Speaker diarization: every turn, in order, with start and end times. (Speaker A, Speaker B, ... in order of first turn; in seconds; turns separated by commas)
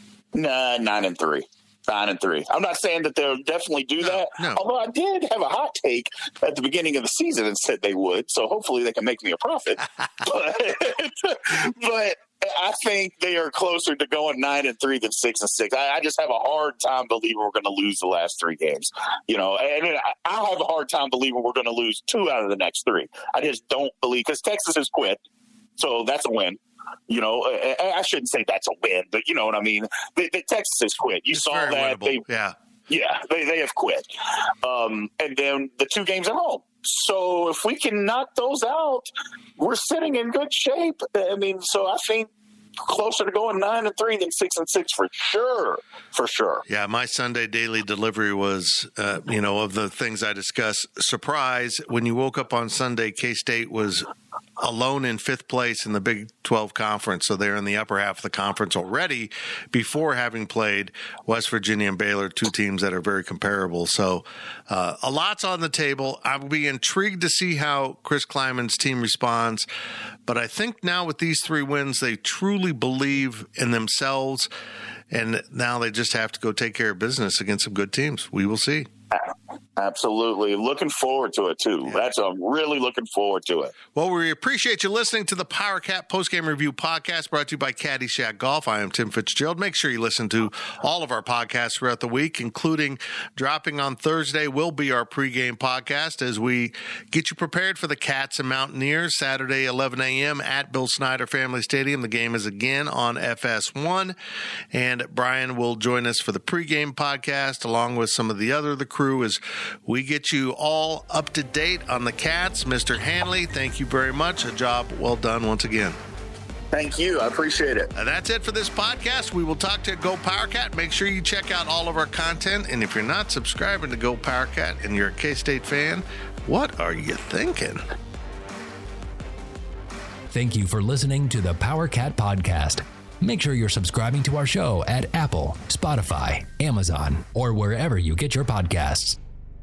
Speaker A: 0.3-25.2, Speaker B: 4.0-4.6, Speaker A: 25.8-32.2, Speaker B: 31.3-32.5, Speaker A: 32.9-34.1, Speaker A: 34.6-42.3, Speaker A: 42.8-46.6, Speaker B: 46.7-69.7, Speaker B: 70.2-74.5, Speaker B: 75.1-78.9, Speaker A: 79.1-83.7, Speaker B: 83.9-104.1, Speaker B: 104.7-116.0, Speaker A: 116.7-117.9, Speaker B: 117.9-127.8, Speaker C: 130.3-139.2